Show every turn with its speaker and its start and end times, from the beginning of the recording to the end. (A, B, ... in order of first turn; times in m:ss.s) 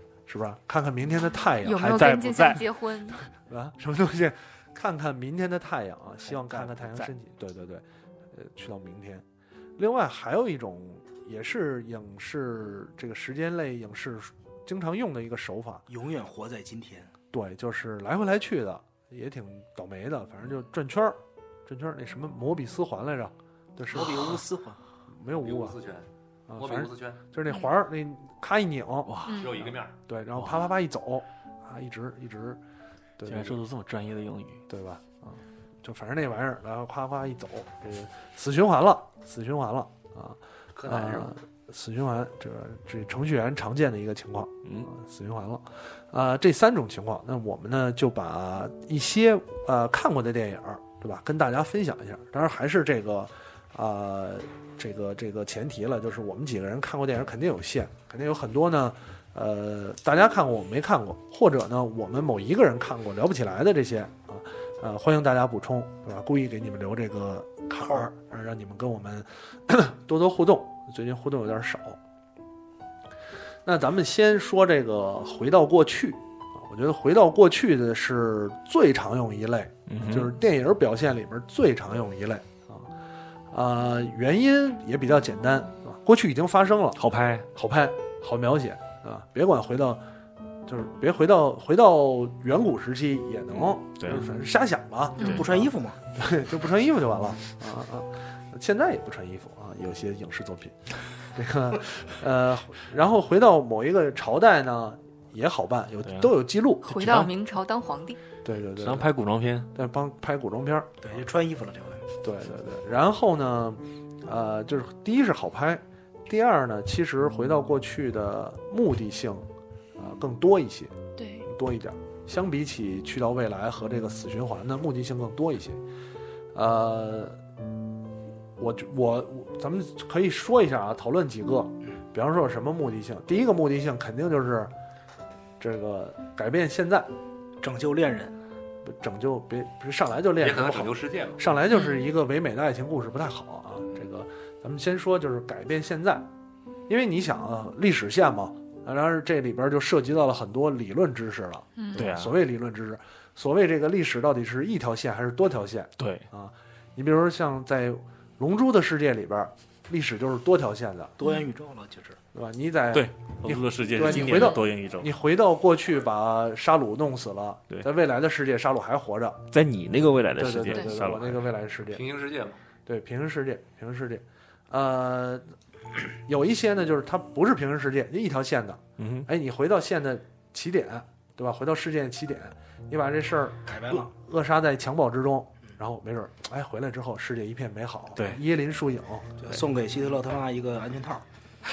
0:00.3-0:09.2 A
0:01.6-0:03.2 B
0:02.0-0:02.6 C
0:06.5-0:07.1 C
0:09.8-0:15.8 A
0:15.9-0:17.1 D
0:17.3-0:24.4 A
0:23.9-0:24.8 D
0:25.1-0:25.8 A
0:25.4-0:26.1 E
0:26.5-0:29.1 A
0:26.6-0:27.2 E
0:29.1-0:29.7 C
0:29.3-0:29.6 B
0:29.3-0:30.0 E
0:30.1-0:32.6 A
0:33.2-0:33.6 A
0:33.2-0:34.6 C
0:34.7-1:12.0 A
0:40.8-0:41.3 E
1:13.6-1:22.9 A
1:19.9-1:20.3 C
1:23.5-1:27.0 A
1:27.0-1:27.5 C
1:27.5-1:30.0 A
1:30.7-1:47.0 A
1:34.0-1:34.2 C
1:35.2-1:36.0 D
1:46.0-1:46.3 C
1:46.8-1:48.2 B
1:46.9-1:47.3 C
1:48.4-1:49.1 A
1:48.8-1:49.7 C
1:49.7-1:51.0 A
1:51.0-1:52.0 D
1:52.2-2:00.9 A
2:01.2-2:01.4 B
2:01.4-2:05.8 A
2:06.5-2:07.4 A
2:08.6-2:14.7 A
2:15.6-2:17.1 A
2:17.6-2:18.4 D
2:18.8-2:26.3 A
2:20.4-2:21.4 E
2:21.7-2:22.1 B
2:26.9-2:41.1 A
2:31.8-2:32.0 B
2:32.0-2:32.4 C
2:36.0-2:36.3 C
2:41.2-2:42.2 D
2:42.3-2:49.4 A
2:42.9-2:45.1 C
2:44.2-2:44.6 B
2:49.5-2:51.4 C
2:50.4-2:52.0 A
2:51.9-2:52.6 E
2:52.9-2:55.5 A
2:56.3-3:09.6 A
2:59.0-2:59.3 C
3:03.7-3:04.1 D
3:08.2-3:08.4 C
3:09.4-3:11.2 D